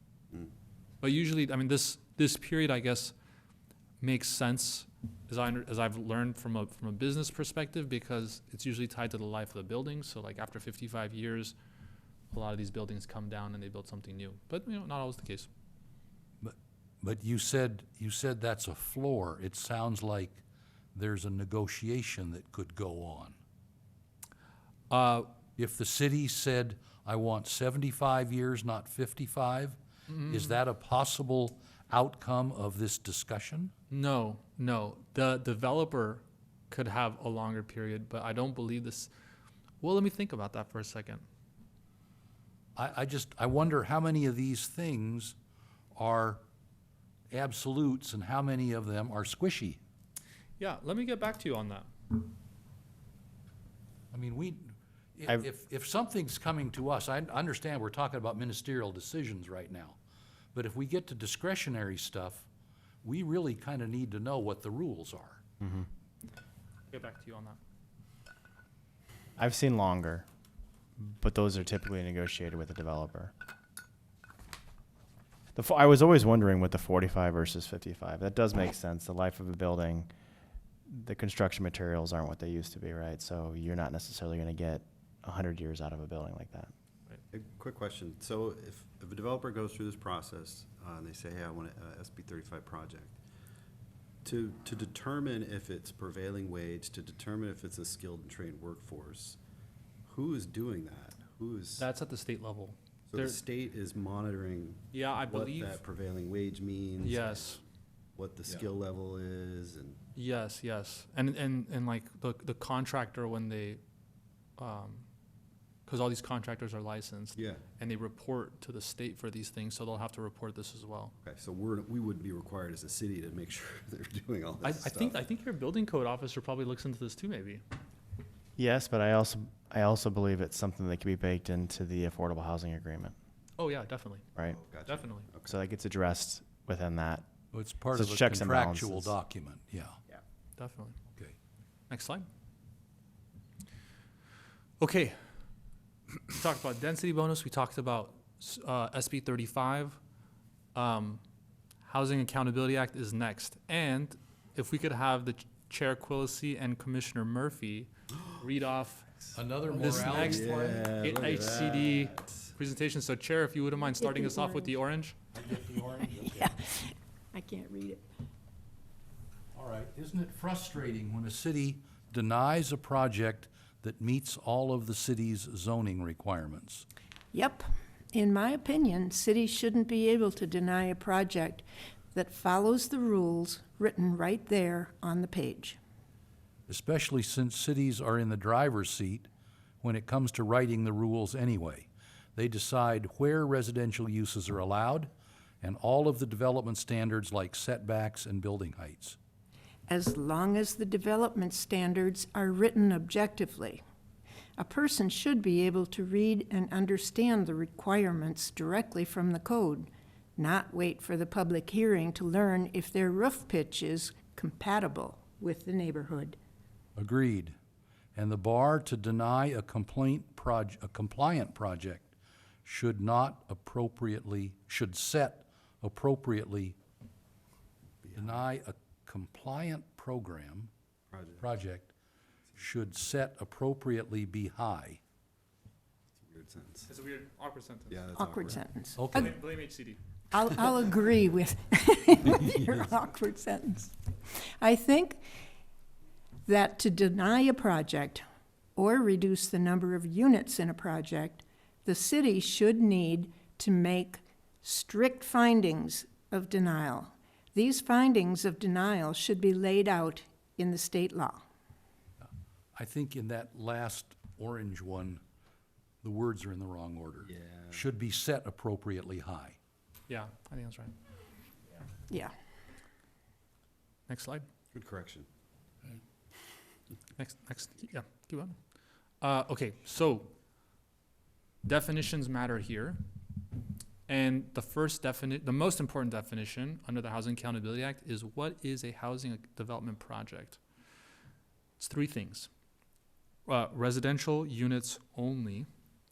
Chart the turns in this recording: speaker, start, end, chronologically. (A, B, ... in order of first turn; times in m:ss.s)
0:01.0-0:03.1 A
0:04.0-0:11.5 A
0:12.3-0:15.5 A
0:16.4-0:20.4 B
0:20.9-0:23.4 B
0:24.9-0:25.3 A
0:25.6-0:33.7 B
0:30.1-0:30.6 A
0:33.9-0:39.1 A
0:39.8-0:41.2 A
0:42.8-0:45.3 B
0:45.9-0:46.4 B
0:47.3-0:49.8 B
0:50.6-0:51.9 A
0:54.1-1:00.0 B
1:00.5-1:02.5 B
1:03.0-1:05.4 B
1:05.6-1:05.9 C
1:06.9-1:07.6 A
1:09.4-1:10.3 C
1:11.0-1:13.3 C
1:15.6-1:20.1 C
1:20.9-1:26.7 C
1:27.3-1:33.2 D
1:34.2-1:39.4 D
1:40.1-1:41.9 D
1:41.8-1:43.4 A
1:43.1-1:47.6 D
1:44.9-1:45.8 A
1:47.0-1:47.6 A
1:48.2-1:50.0 D
1:50.2-1:53.8 A
1:54.6-1:55.1 A
1:55.9-2:01.1 A
1:57.4-1:57.6 D
2:01.2-2:05.3 D
2:04.6-2:07.6 A
2:08.6-2:13.1 C
2:13.6-2:14.3 A
2:14.5-2:15.5 D
2:14.8-2:15.3 A
2:15.4-2:17.2 C
2:17.5-2:20.0 B
2:17.9-2:19.1 C
2:20.6-2:21.0 A
2:21.9-2:22.3 A
2:24.8-2:25.2 A
2:26.3-2:30.0 A
2:30.8-2:31.2 A
2:31.8-2:39.1 A
2:39.3-2:40.9 B
2:39.7-2:45.2 A
2:39.8-2:42.5 D
2:44.0-2:44.8 E
2:45.3-2:46.5 B
2:46.2-2:48.0 E
2:49.5-2:56.8 B
2:57.3-3:05.8 E
3:06.7-3:09.3 B
3:09.8-3:19.2 B
3:19.9-3:23.8 E
3:24.6-3:36.4 E
3:37.0-3:37.5 B
3:38.1-3:42.1 B
3:42.6-3:46.8 B
3:48.0-3:48.5 D
3:48.1-3:50.7 B
3:51.1-3:51.4 D
3:51.4-3:51.9 B
3:52.6-3:55.0 B
3:56.2-3:56.9 D
3:56.9-3:58.0 A
3:57.9-3:58.7 D
3:58.1-3:59.4 E
3:59.0-3:59.4 B
3:59.1-4:00.0 A
4:00.3-4:05.2 E
4:06.4-4:08.2 E
4:08.8-4:21.4 E
4:22.2-4:25.2 B
4:26.0-4:29.6 B
4:27.2-4:27.8 D
4:30.1-4:30.9 A
4:34.1-4:34.4 A
4:34.7-4:35.2 D
4:37.2-4:38.6 A
4:39.2-4:40.3 A
4:41.6-4:43.0 A
4:44.1-4:50.6 A
4:51.8-4:52.5 A
4:53.5-4:55.7 A